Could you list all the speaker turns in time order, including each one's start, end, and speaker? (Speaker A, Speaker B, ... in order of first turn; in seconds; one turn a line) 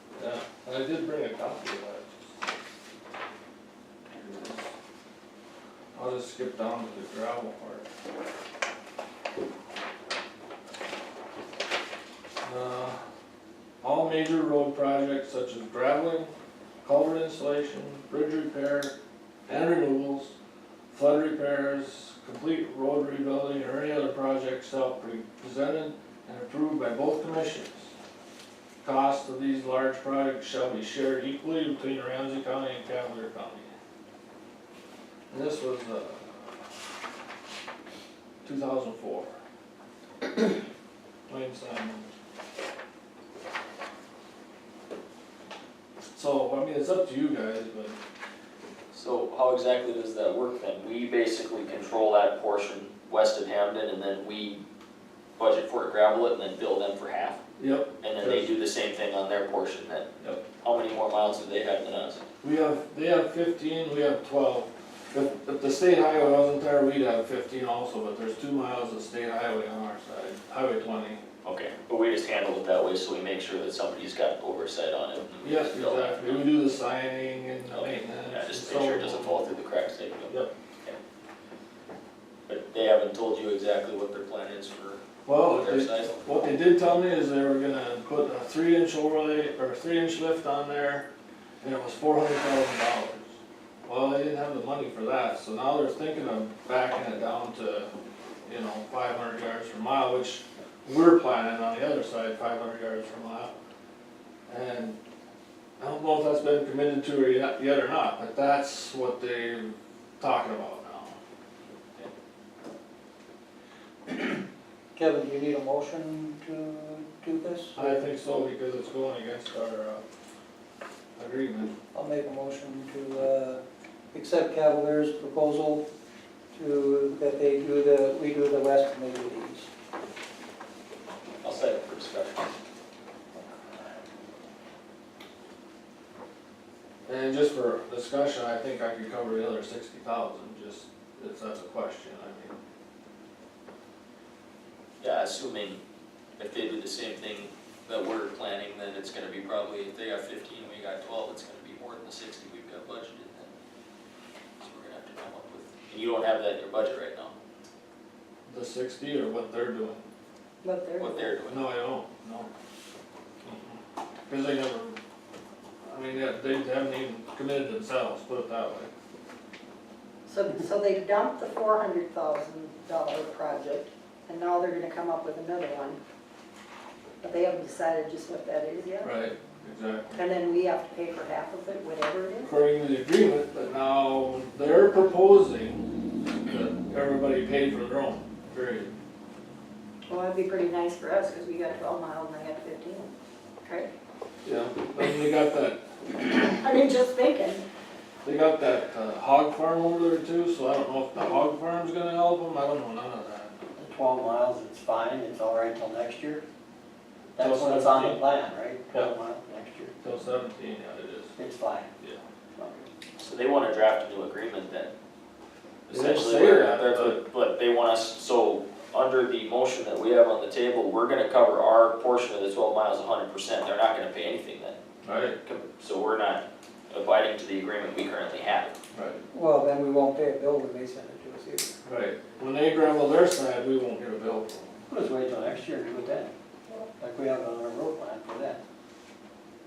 Speaker A: 0.2-2.2
Speaker A: 4.2-4.7
Speaker A: 6.0-7.9
Speaker A: 12.4-13.0
Speaker A: 13.8-16.3
Speaker A: 16.8-18.9
Speaker A: 19.5-20.3
Speaker A: 20.9-27.9
Speaker A: 28.8-33.7
Speaker A: 35.3-36.6
Speaker A: 38.4-39.3
Speaker A: 41.3-42.1
Speaker A: 46.1-48.0
Speaker B: 48.9-54.6
Speaker B: 55.4-57.4
Speaker A: 57.6-58.5
Speaker B: 58.0-60.1
Speaker B: 60.6-62.2
Speaker A: 62.4-71.2
Speaker B: 71.4-76.5
Speaker A: 75.4-79.4
Speaker B: 77.7-81.0
Speaker B: 82.5-86.3
Speaker A: 85.2-91.1
Speaker A: 91.6-93.3
Speaker A: 93.9-97.9
Speaker A: 98.5-103.5
Speaker A: 104.5-105.0
Speaker A: 105.8-111.2
Speaker C: 115.0-117.8
Speaker A: 117.8-120.0
Speaker A: 121.2-121.7
Speaker C: 121.9-123.6
Speaker C: 124.1-125.8
Speaker C: 126.5-129.7
Speaker B: 131.4-132.5
Speaker A: 137.1-142.6
Speaker B: 145.0-145.8
Speaker B: 146.4-153.5
Speaker B: 154.6-157.3
Speaker A: 158.5-160.0
Speaker D: 160.6-161.3
Speaker B: 161.0-161.6
Speaker A: 161.5-162.5
Speaker A: 163.4-165.0
Speaker A: 165.8-168.9
Speaker D: 170.3-176.0
Speaker D: 177.2-179.1
Speaker A: 179.0-180.2
Speaker D: 180.1-182.5
Speaker A: 182.4-188.9
Speaker D: 190.1-193.1
Speaker D: 193.7-193.9
Speaker A: 194.4-195.8
Speaker D: 196.5-197.6
Speaker A: 198.2-203.5
Speaker E: 203.8-206.4
Speaker E: 207.3-209.9
Speaker A: 207.4-208.2
Speaker A: 210.0-211.3
Speaker E: 211.4-211.9
Speaker E: 212.6-212.9
Speaker B: 213.2-214.9
Speaker B: 215.9-224.8
Speaker A: 215.9-217.2
Speaker A: 225.0-225.4
Speaker B: 225.4-228.8
Speaker A: 228.9-229.2
Speaker C: 229.3-231.7
Speaker A: 231.8-234.7
Speaker E: 234.9-236.3
Speaker E: 237.0-238.6